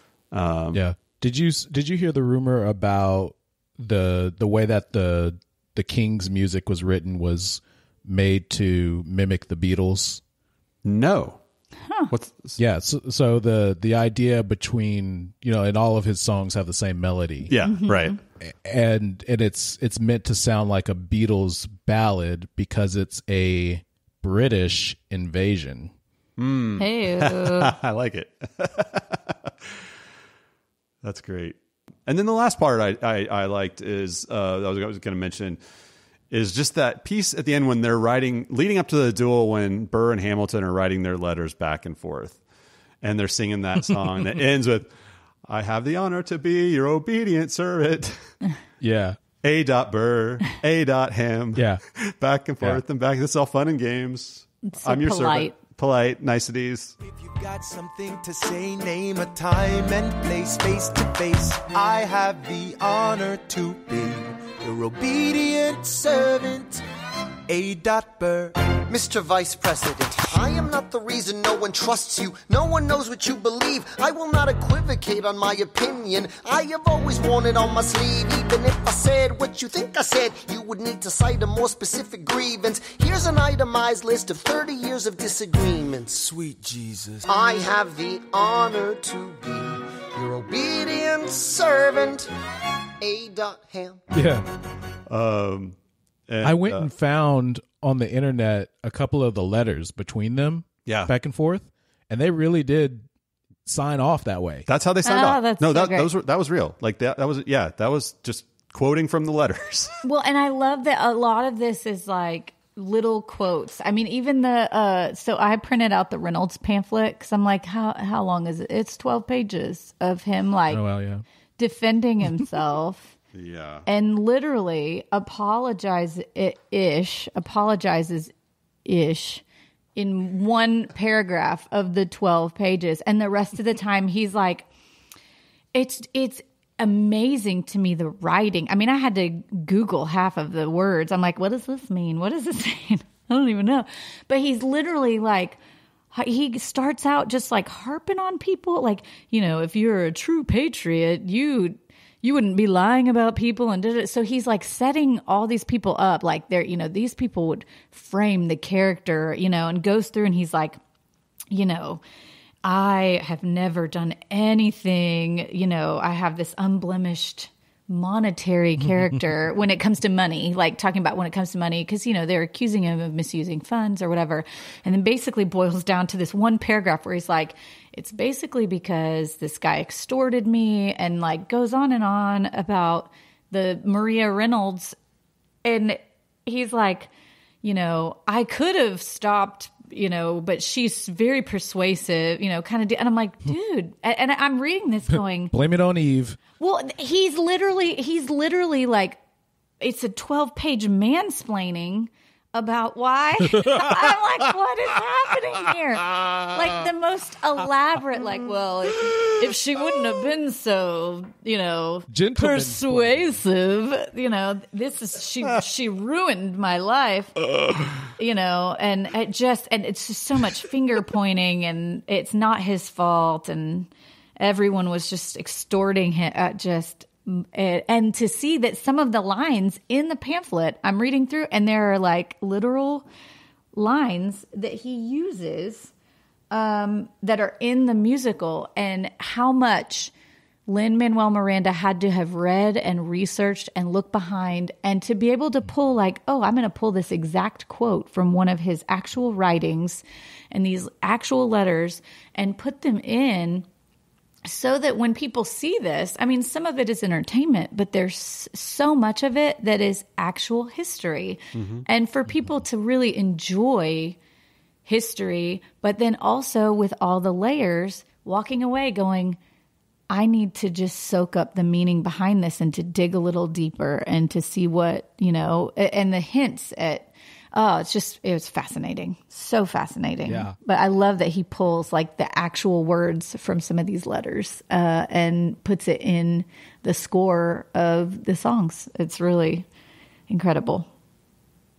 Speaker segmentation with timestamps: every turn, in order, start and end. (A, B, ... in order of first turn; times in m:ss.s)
0:00.3-0:00.8 A
0:00.7-0:10.2 B
0:10.8-0:11.4 A
0:12.1-0:12.6 A
0:12.6-0:17.5 B
0:17.5-0:18.2 A
0:17.6-0:18.2 C
0:18.4-0:25.9 B
0:26.4-0:29.7 A
0:26.8-0:27.7 C
0:31.0-0:35.6 A
0:36.3-0:42.4 A
0:43.0-0:44.9 A
0:45.5-0:48.4 A
0:48.8-0:49.2 B
0:49.4-0:56.9 A
0:51.5-0:51.8 B
0:54.7-0:55.5 C
0:57.0-1:06.8 D
1:07.5-1:08.7 D
1:08.9-1:26.2 E
1:26.1-1:27.3 D
1:27.3-1:32.3 E
1:33.0-1:34.0 E
1:34.1-1:34.5 B
1:35.1-1:35.8 A
1:36.3-1:36.9 A
1:36.4-1:43.1 B
1:40.8-1:41.1 A
1:43.6-1:44.6 B
1:44.7-1:50.0 A
1:45.0-1:46.1 C
1:50.0-2:00.8 C
2:00.7-2:01.2 B
2:01.6-2:03.1 C
2:03.3-2:03.8 A
2:03.8-2:08.3 C
2:08.8-2:09.4 C
2:09.9-2:14.7 C
2:15.7-2:25.6 C
2:26.1-2:40.8 C
2:41.5-2:42.0 C
2:42.6-3:04.9 C
2:48.9-2:49.1 B
3:05.6-3:07.1 C
3:07.6-3:15.5 C
3:15.5-3:16.4 B
3:16.6-3:19.2 C
3:19.8-3:37.4 C
3:32.1-3:33.4 B
3:38.0-3:53.0 C
3:53.7-3:55.9 C
3:56.5-4:00.1 C
4:00.7-4:13.6 C
4:14.4-4:24.2 C
4:21.5-4:21.8 A
4:24.8-4:29.4 C
4:30.1-4:49.7 C
4:40.2-4:40.6 B
4:50.3-4:50.9 C